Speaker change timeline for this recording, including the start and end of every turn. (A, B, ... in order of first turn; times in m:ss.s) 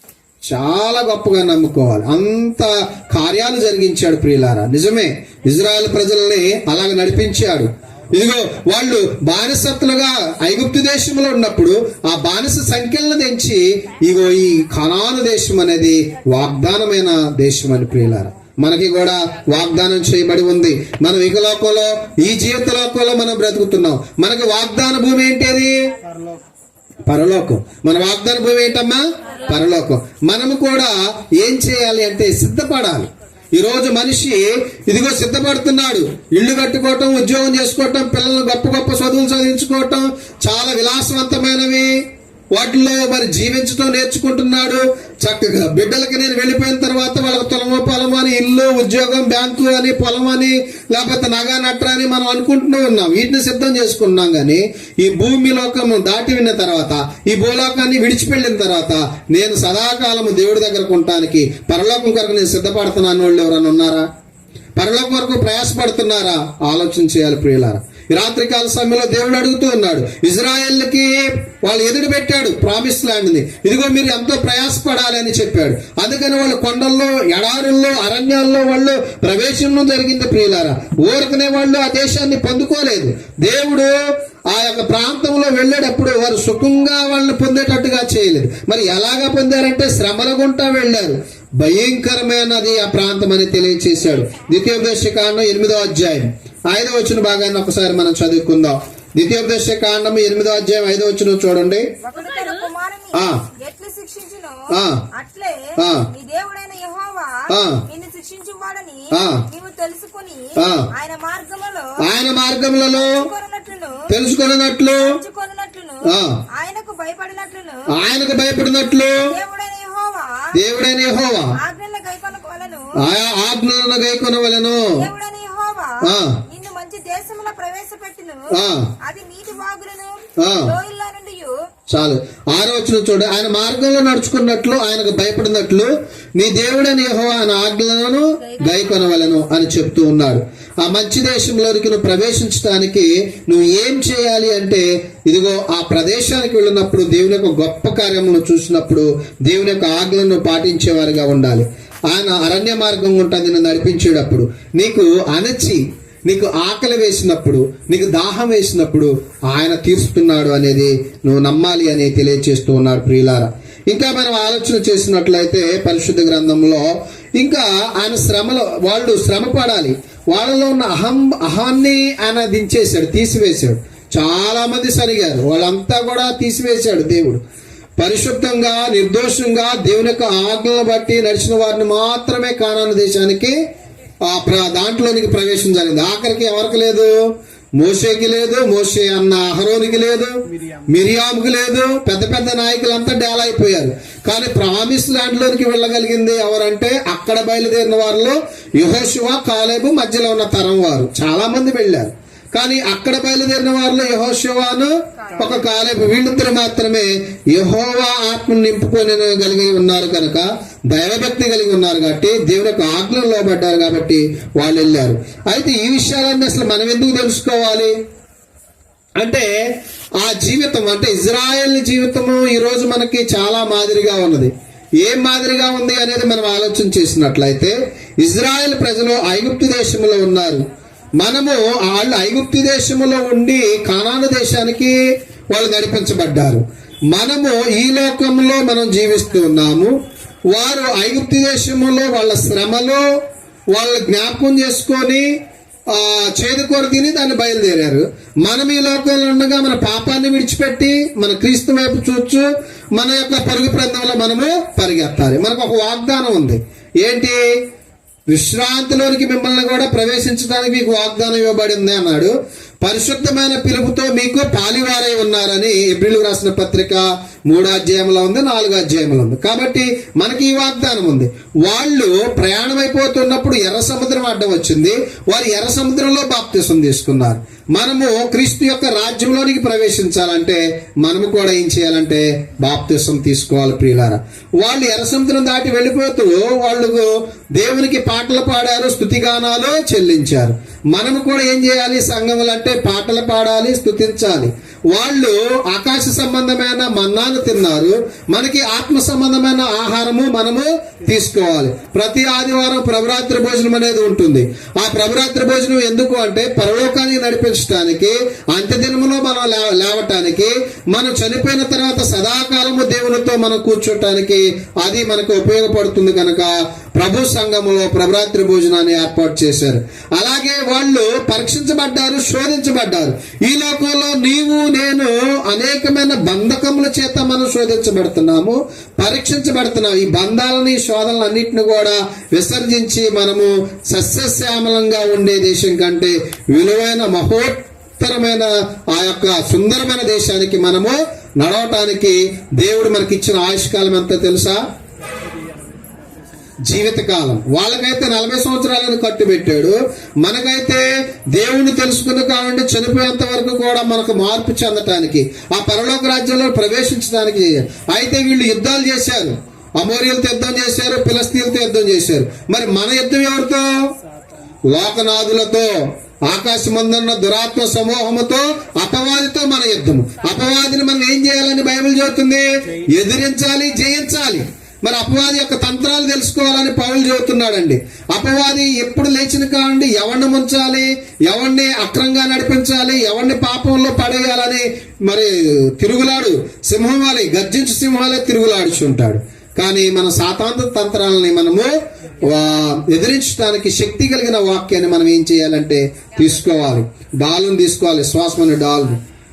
0:00.4-0:25.7 A
0:27.0-0:41.9 A
0:42.5-1:04.1 A
1:04.8-1:24.0 A
1:24.5-1:41.8 A
1:42.0-1:52.0 B
1:43.1-1:43.4 A
1:44.7-1:45.0 A
1:45.8-1:46.1 A
1:47.5-1:47.8 A
1:49.1-1:49.4 A
1:50.6-1:50.9 A
1:52.0-1:53.2 A
1:52.9-1:54.1 B
1:54.1-1:55.1 A
1:55.0-1:56.0 B
1:56.0-1:56.4 A
1:56.5-1:57.9 B
1:57.9-1:59.2 A
1:59.3-2:00.5 B
2:00.5-2:01.6 A
2:01.6-2:02.9 B
2:03.0-2:05.0 A
2:04.8-2:11.6 B
2:06.0-2:06.4 A
2:08.5-2:08.9 A
2:10.4-2:10.7 A
2:11.9-2:57.4 A
2:58.0-3:03.6 A
3:04.2-3:07.1 A
3:07.8-3:10.3 A
3:10.9-3:37.9 A
3:39.2-3:50.6 A
3:51.2-3:55.0 A
3:55.5-3:59.9 A
4:00.5-4:03.0 A
4:03.7-4:05.3 A
4:05.9-4:17.4 A
4:18.3-5:44.6 A
5:46.6-6:03.7 A
6:04.7-6:39.0 A